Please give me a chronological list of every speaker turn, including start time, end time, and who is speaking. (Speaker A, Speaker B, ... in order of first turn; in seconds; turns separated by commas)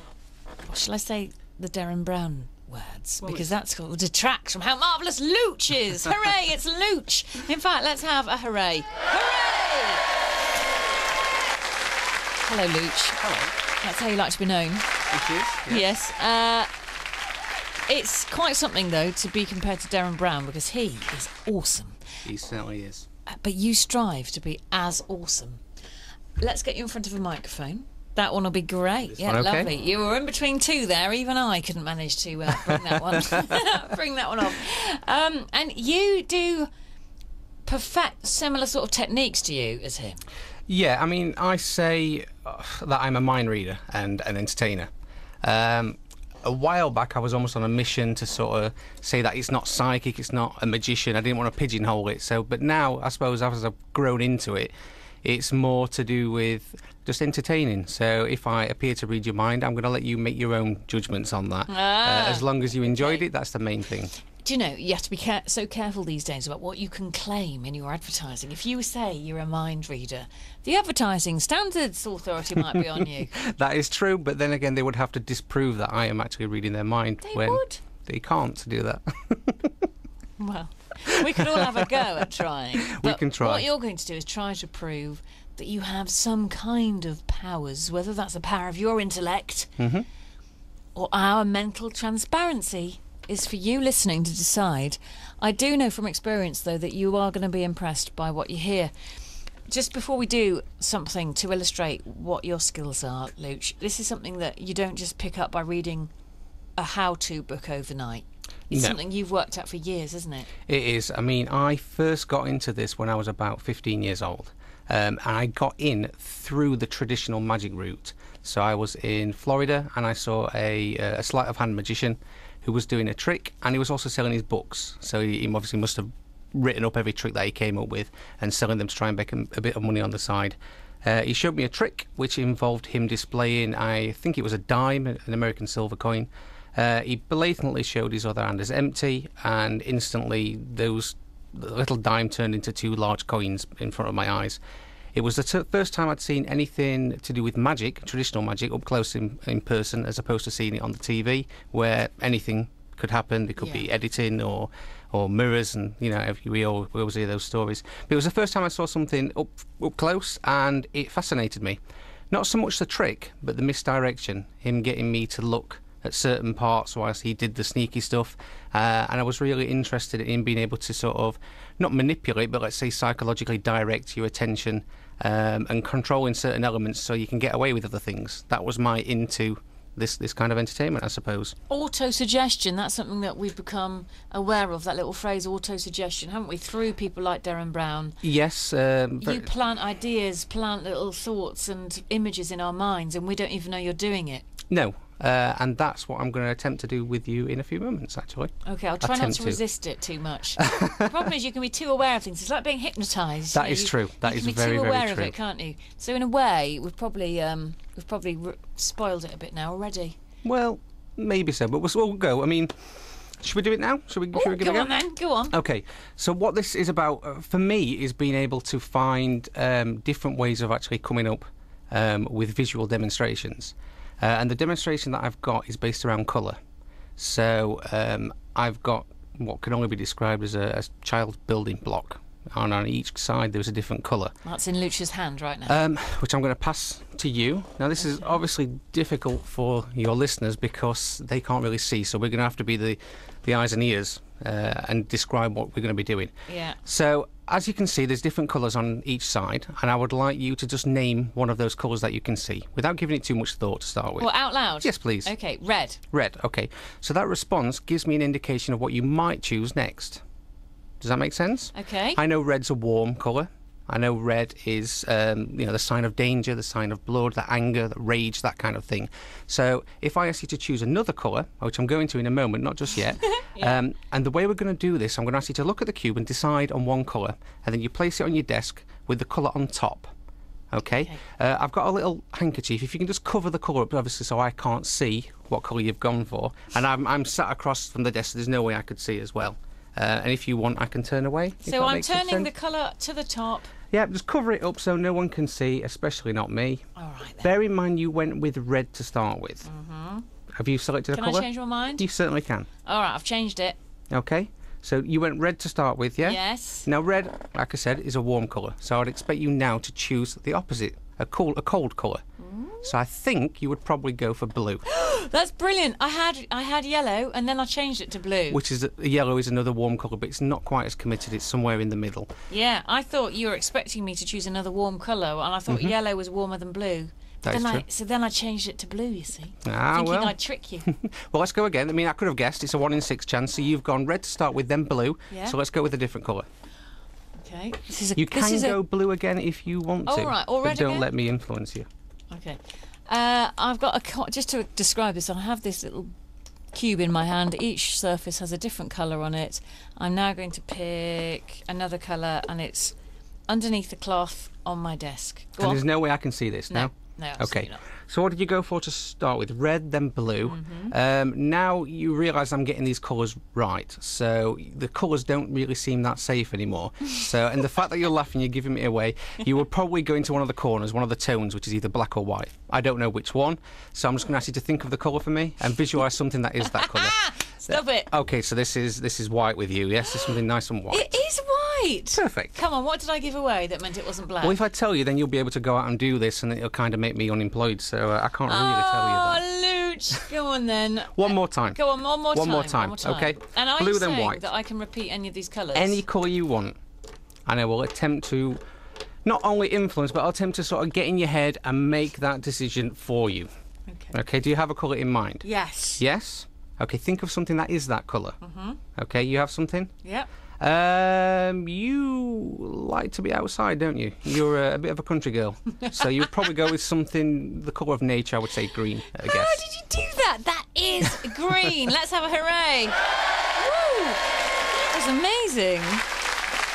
Speaker A: 0.7-10.1, Speaker A: 12.4-13.2, Speaker B: 13.2-13.5, Speaker A: 13.8-14.9, Speaker B: 15.1-15.9, Speaker A: 15.7-16.7, Speaker A: 17.9-22.0, Speaker B: 22.2-23.1, Speaker A: 23.3-25.6, Speaker A: 26.4-36.7, Speaker B: 29.2-29.7, Speaker B: 33.0-33.5, Speaker A: 37.7-40.2, Speaker B: 40.7-44.9, Speaker B: 45.4-54.7, Speaker B: 55.2-64.1, Speaker A: 61.7-63.2, Speaker A: 64.4-73.3, Speaker B: 72.6-79.8, Speaker A: 77.2-77.8, Speaker A: 80.4-89.7, Speaker B: 81.2-82.0, Speaker B: 82.8-83.7, Speaker B: 89.8-90.1, Speaker A: 91.0-98.9, Speaker A: 99.7-106.1, Speaker A: 106.8-110.5, Speaker B: 108.7-109.0, Speaker B: 110.7-144.6, Speaker B: 145.1-161.8, Speaker B: 162.3-181.6, Speaker A: 181.7-188.2, Speaker B: 188.2-189.5, Speaker A: 189.2-194.4, Speaker B: 194.7-199.6, Speaker A: 198.7-210.2, Speaker B: 200.6-201.1, Speaker B: 203.5-205.3, Speaker B: 210.4-212.7, Speaker B: 213.4-215.0, Speaker A: 214.3-215.5, Speaker B: 215.5-226.6, Speaker B: 227.2-234.3, Speaker A: 234.4-235.8, Speaker B: 235.7-246.3, Speaker A: 238.0-238.4, Speaker A: 246.5-246.8, Speaker B: 246.8-254.3, Speaker A: 254.2-256.0, Speaker B: 254.8-255.3, Speaker B: 256.1-260.2, Speaker B: 261.0-280.1, Speaker A: 261.7-262.2, Speaker A: 273.3-273.8, Speaker B: 280.7-292.5, Speaker A: 291.6-293.7, Speaker B: 293.9-296.9, Speaker A: 297.0-297.5, Speaker B: 297.4-299.7, Speaker A: 299.6-300.2, Speaker B: 300.6-302.7, Speaker A: 301.1-302.1, Speaker A: 302.8-303.8, Speaker B: 304.1-312.2, Speaker A: 306.2-306.9, Speaker A: 312.4-312.9, Speaker B: 312.8-314.8, Speaker A: 314.9-318.6, Speaker B: 318.5-322.3, Speaker A: 322.5-330.9, Speaker B: 325.7-325.9, Speaker B: 327.4-327.9, Speaker B: 329.6-336.5, Speaker A: 337.4-338.8, Speaker B: 338.2-341.9, Speaker A: 340.1-341.1, Speaker A: 342.3-346.1, Speaker A: 346.7-352.9, Speaker A: 353.5-355.8, Speaker B: 355.6-381.1, Speaker A: 356.7-357.8, Speaker A: 360.5-360.9, Speaker A: 376.8-378.1, Speaker A: 380.9-384.6, Speaker B: 382.1-382.6, Speaker B: 384.4-389.4, Speaker A: 388.5-396.0, Speaker B: 391.1-391.8, Speaker B: 392.3-394.4, Speaker B: 395.8-396.8, Speaker B: 397.5-398.6, Speaker B: 399.2-403.5, Speaker A: 403.9-404.1, Speaker B: 404.1-405.4, Speaker A: 405.4-406.0, Speaker B: 406.0-408.4, Speaker A: 408.4-408.8, Speaker B: 409.0-409.9, Speaker B: 410.6-419.6, Speaker A: 415.8-416.5, Speaker A: 419.2-423.0, Speaker A: 423.5-424.2, Speaker A: 424.9-426.1